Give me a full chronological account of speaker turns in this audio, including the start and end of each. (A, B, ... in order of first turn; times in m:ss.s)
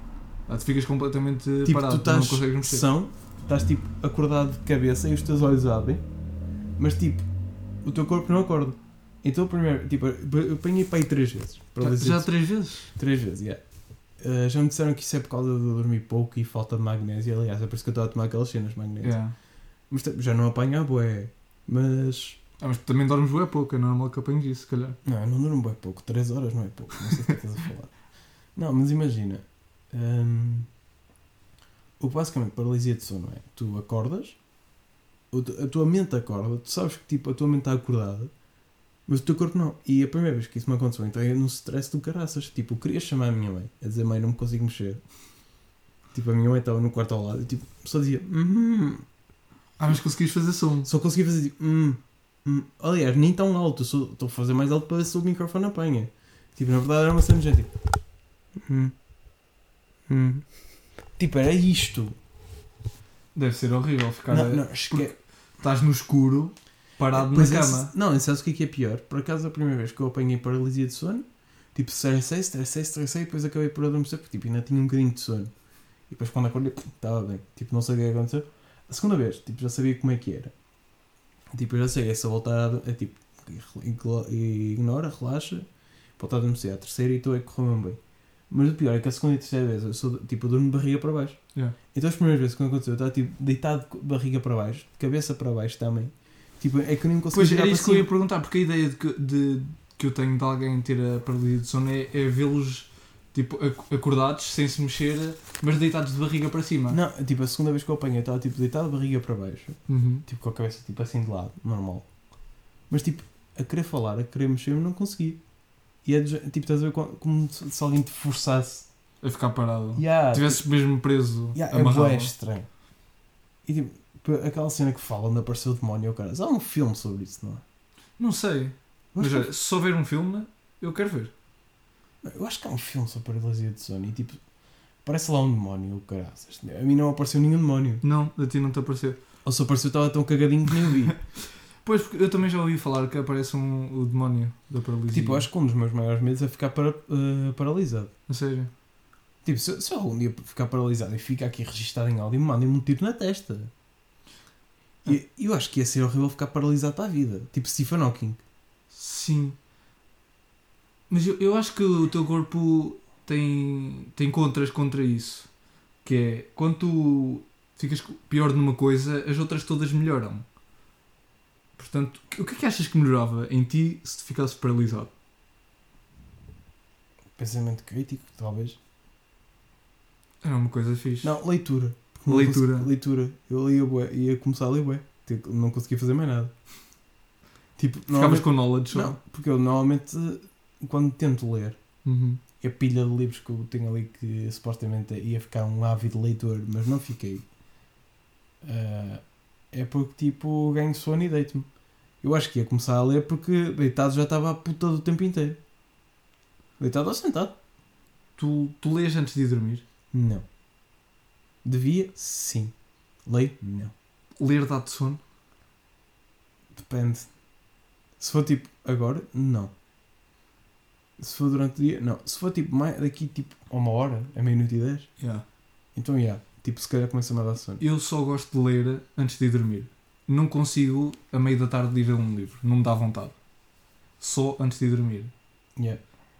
0:00.5-0:02.9 A
0:01.6-0:06.0 B
0:06.8-0:07.3 B
0:07.8-0:12.3 B
0:11.8-0:12.9 A
0:12.9-0:13.6 B
0:14.2-0:19.2 B
0:19.0-0:19.4 A
0:19.9-0:22.4 B
0:22.6-0:25.0 A
0:25.0-0:28.0 B
0:28.6-0:30.7 B
0:32.0-0:34.4 B
0:35.3-0:38.3 B
0:39.1-0:45.0 B
0:46.1-0:49.0 B
0:49.8-0:50.9 A
0:50.8-0:57.7 B
0:58.6-0:58.9 B
1:00.1-1:00.5 B
1:01.2-1:02.2 B
1:03.4-1:07.9 A
1:04.3-1:05.1 B
1:07.1-1:15.5 B
1:16.1-1:20.5 B
1:21.5-1:25.6 B
1:26.2-1:28.0 B
1:28.5-1:31.4 B
1:31.9-1:38.1 B
1:37.3-1:47.0 A
1:46.9-1:52.1 B
1:49.9-1:50.2 A
1:52.9-1:55.4 B
1:56.0-1:58.9 B
1:59.2-2:02.3 A
2:00.0-2:00.6 B
2:01.5-2:02.7 B
2:03.6-2:07.6 B
2:08.2-2:11.3 A
2:09.2-2:09.5 B
2:12.2-2:14.4 B
2:15.0-2:18.0 B
2:18.0-2:19.2 A
2:19.4-2:21.2 B
2:21.8-2:25.5 A
2:25.1-2:28.1 B
2:28.3-2:28.7 A
2:29.4-2:33.7 B
2:35.0-2:38.4 B
2:38.9-2:39.6 A
2:41.1-2:45.5 A
2:46.0-2:50.4 A
2:51.8-2:55.1 A
2:57.4-2:58.8 B
3:00.4-3:01.4 A
3:01.2-3:06.5 B
3:02.3-3:02.9 A
3:07.8-3:11.8 B
3:08.1-3:09.1 A
3:12.0-3:12.4 A
3:12.6-3:17.5 B
3:18.6-3:21.7 B
3:22.2-3:25.6 B
3:26.8-3:27.5 B
3:28.4-3:29.8 A
3:30.1-3:30.4 B
3:31.6-3:32.7 B
3:33.3-3:33.9 B
3:34.4-3:35.2 A
3:36.8-3:37.3 B
3:38.2-3:39.7 B
3:41.2-3:45.1 B
3:45.2-3:45.4 A
3:46.0-3:47.8 B
3:47.8-3:53.4 A
3:54.2-3:55.3 A